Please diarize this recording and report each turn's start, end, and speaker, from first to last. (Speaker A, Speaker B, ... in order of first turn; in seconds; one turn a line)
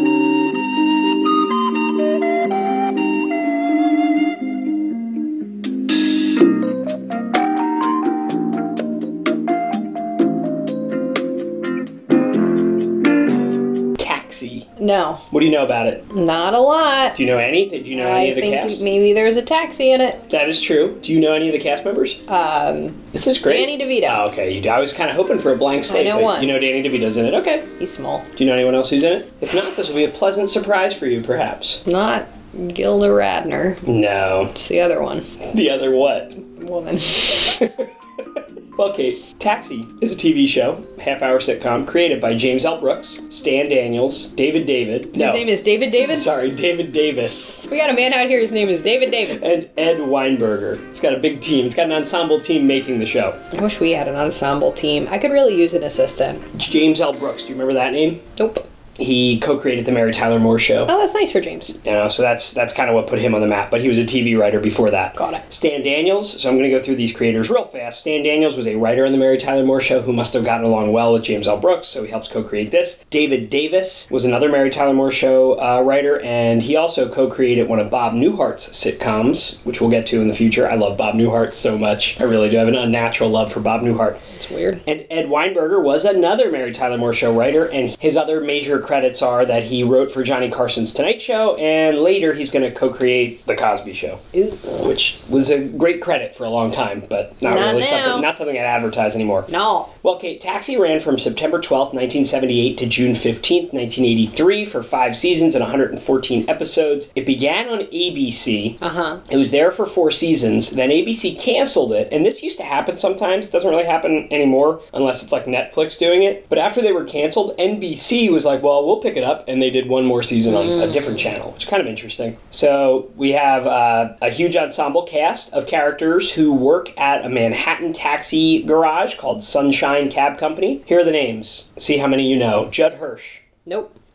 Speaker A: 14.0-14.7
Speaker B: 14.8-15.2
Speaker A: 15.3-16.0
Speaker B: 16.1-17.2
Speaker A: 17.1-18.8
Speaker B: 17.9-20.2
Speaker A: 20.3-22.2
Speaker B: 22.3-24.2
Speaker A: 23.1-27.7
Speaker B: 25.9-26.5
Speaker B: 27.8-28.3
Speaker A: 28.3-31.8
Speaker B: 31.8-33.8
Speaker A: 33.8-34.5
Speaker B: 34.5-35.3
Speaker A: 35.5-36.4
Speaker B: 36.4-37.6
Speaker A: 37.4-37.9
Speaker A: 38.7-45.5
Speaker B: 45.1-46.2
Speaker A: 46.0-47.6
Speaker B: 47.6-49.4
Speaker A: 49.3-53.4
Speaker B: 53.5-56.4
Speaker A: 56.5-58.2
Speaker B: 58.4-58.6
Speaker A: 59.0-60.9
Speaker B: 60.9-61.7
Speaker A: 61.8-84.2
Speaker B: 65.2-65.4
Speaker B: 84.3-84.8
Speaker A: 84.8-99.5
Speaker B: 97.4-98.3
Speaker B: 99.5-99.9
Speaker A: 100.0-133.4
Speaker B: 108.8-109.2
Speaker B: 120.5-121.2
Speaker B: 133.7-133.9